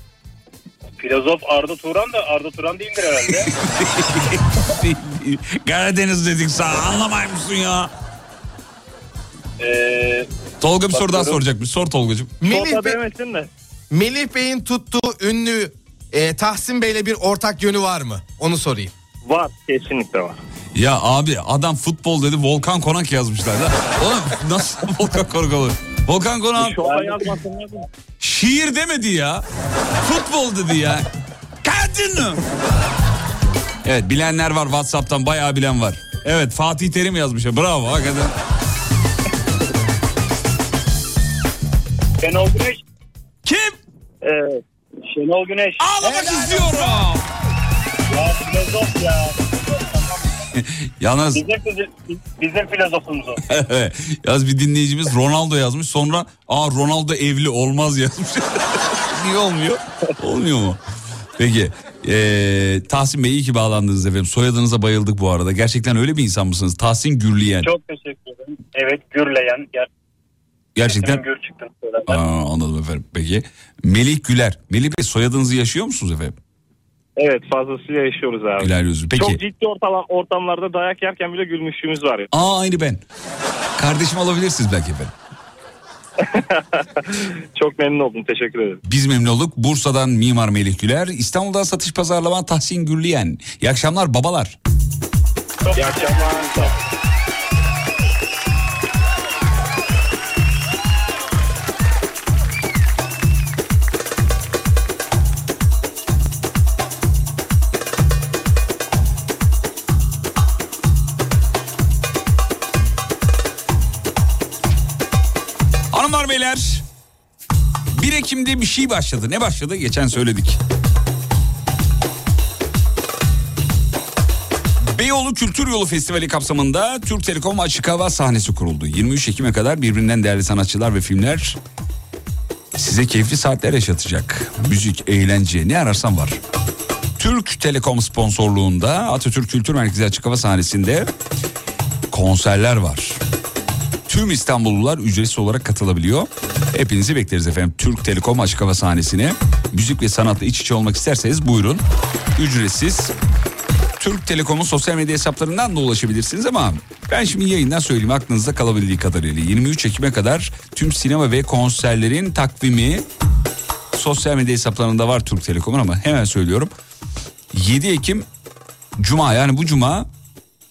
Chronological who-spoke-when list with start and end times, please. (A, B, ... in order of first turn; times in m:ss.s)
0:01.0-0:03.5 A
0:03.3-0:07.9 B
0:09.6-0:10.3 A
0:10.6-0:12.4 B
0:10.9-0:11.4 A
0:12.4-0:13.0 C
0:12.5-0:13.5 D
0:13.9-0:18.9 C
0:19.2-0:20.4 D
0:20.7-0:26.9 B
0:26.6-0:27.8 D
0:26.8-0:27.4 A
0:28.2-0:29.4 B
0:30.0-0:31.1 B
0:31.6-0:32.4 B
0:33.8-0:38.3 B
0:42.2-0:42.8 A
0:43.4-0:43.8 B
0:44.2-0:44.6 D
0:45.0-0:47.0 A
0:45.8-0:47.2 B
0:48.1-0:50.2 A
0:50.6-0:51.4 B
0:51.3-0:53.4 A
0:53.5-1:00.8 B
1:01.4-1:07.7 B
1:07.6-1:09.9 A
1:10.8-1:11.2 B
1:10.8-1:12.2 A
1:12.1-1:16.4 B
1:17.2-1:22.3 D
1:18.6-1:19.4 B
1:22.3-1:23.0 B
1:23.8-1:25.1 B
1:26.2-1:28.8 D
1:28.8-1:34.6 B
1:35.7-1:36.7 D
1:35.7-1:36.7 A
1:55.9-1:56.8 B
1:57.9-2:00.6 B
2:04.8-2:11.6 B
2:12.7-2:16.4 B
2:17.2-2:21.1 B
2:22.1-2:23.2 B
2:24.1-2:31.8 B
2:32.4-2:33.1 B
2:34.0-2:43.0 B
2:43.9-2:46.7 B
2:47.5-2:48.3 B
2:49.0-2:50.1 B